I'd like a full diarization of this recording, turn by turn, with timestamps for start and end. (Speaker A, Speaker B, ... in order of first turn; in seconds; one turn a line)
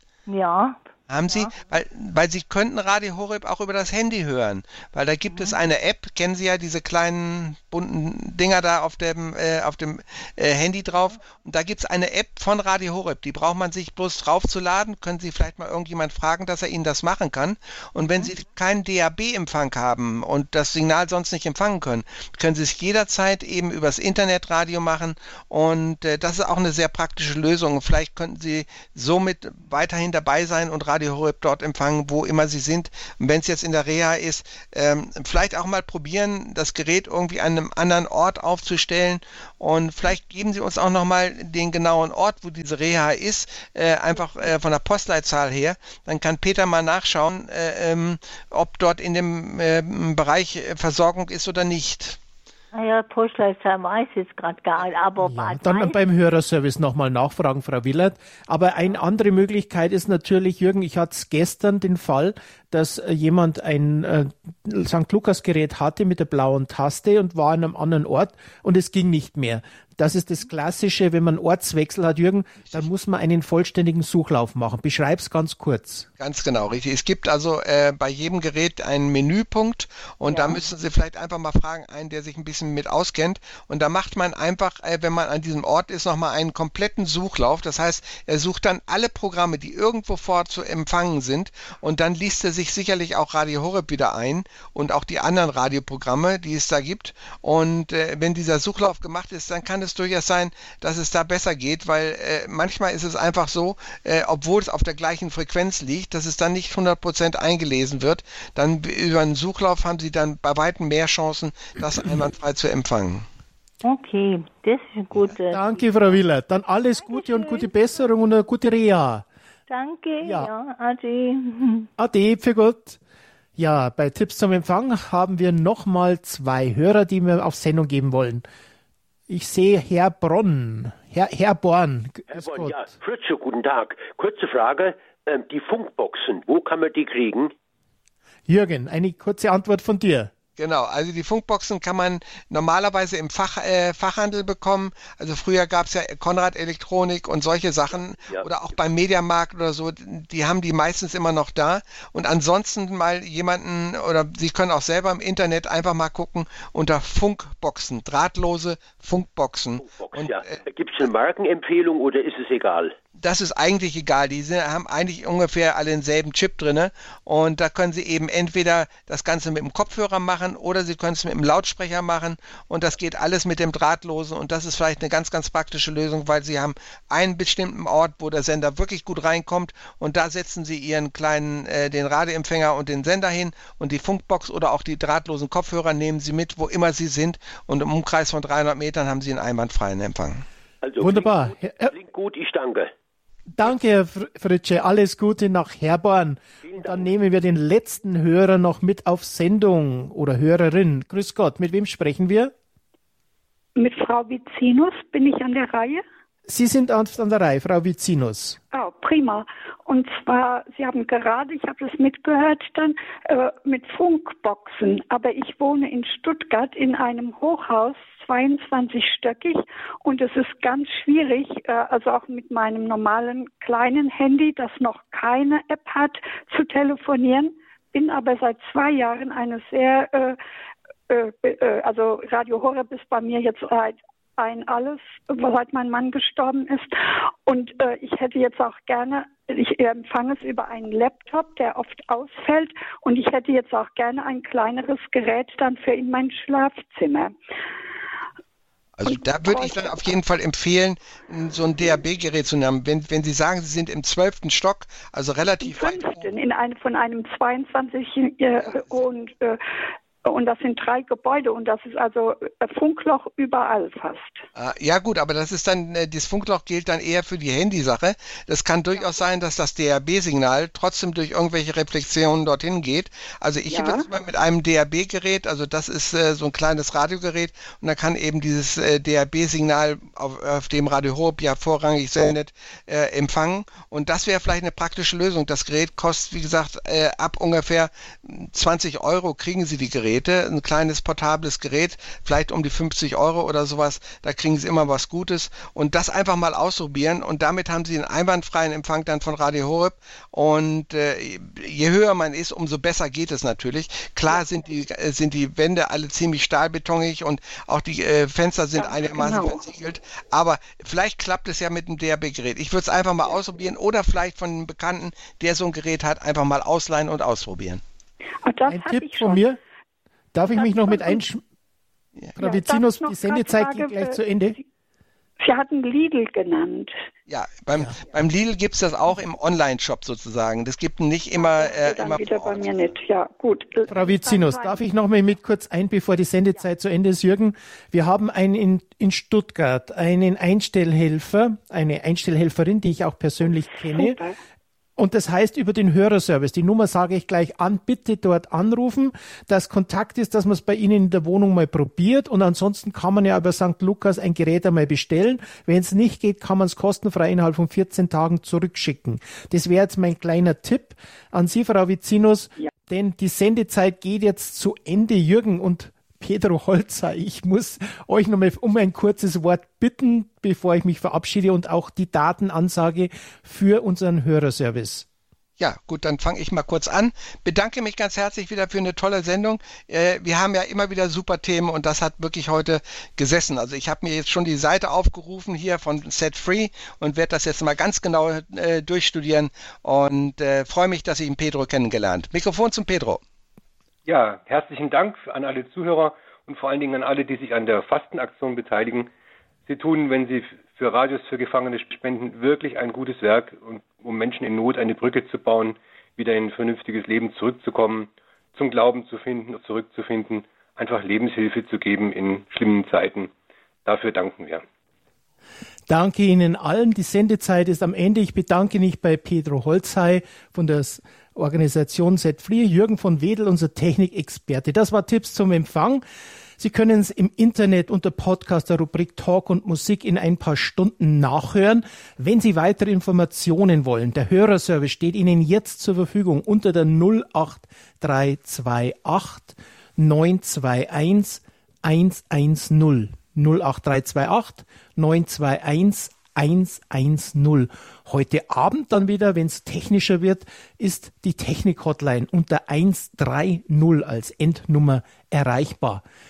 Speaker A: 0.3-1.5
Speaker B: 1.1-52.2
Speaker A: 5.3-5.6
Speaker A: 18.0-18.3
Speaker A: 52.7-56.0
Speaker C: 55.2-76.1
Speaker B: 76.2-113.3
Speaker A: 113.8-116.2
Speaker C: 115.5-119.2
Speaker A: 117.0-117.7
Speaker A: 119.7-121.9
Speaker C: 120.2-120.5
Speaker C: 122.0-123.0
Speaker C: 123.6-128.5
Speaker C: 129.3-132.9
Speaker D: 132.3-137.5
Speaker C: 138.5-140.3
Speaker B: 140.6-160.6
Speaker D: 159.8-162.9
Speaker B: 163.2-190.4
Speaker D: 190.8-192.9
Speaker C: 191.0-191.9
Speaker C: 193.6-202.5
Speaker D: 196.6-197.1
Speaker E: 203.8-206.0
Speaker C: 206.5-208.6
Speaker E: 208.7-230.4
Speaker E: 231.1-247.3
Speaker B: 249.0-256.3
Speaker E: 249.1-249.9
Speaker E: 255.6-259.6
Speaker E: 260.2-264.4
Speaker B: 264.6-317.8
Speaker E: 273.7-274.1
Speaker E: 308.8-309.6
Speaker E: 318.4-319.4
Speaker C: 318.7-319.6
Speaker C: 320.3-321.4
Speaker E: 320.4-321.2
Speaker C: 322.4-324.6
Speaker E: 322.4-324.6
Speaker E: 325.4-326.9
Speaker B: 327.3-332.9
Speaker E: 331.4-334.8
Speaker C: 333.9-344.2
Speaker E: 343.9-344.4
Speaker C: 345.0-375.1
Speaker B: 375.6-393.2
Speaker F: 394.1-399.1
Speaker F: 399.7-413.3
Speaker F: 413.9-414.6
Speaker C: 415.9-426.0
Speaker C: 426.6-456.0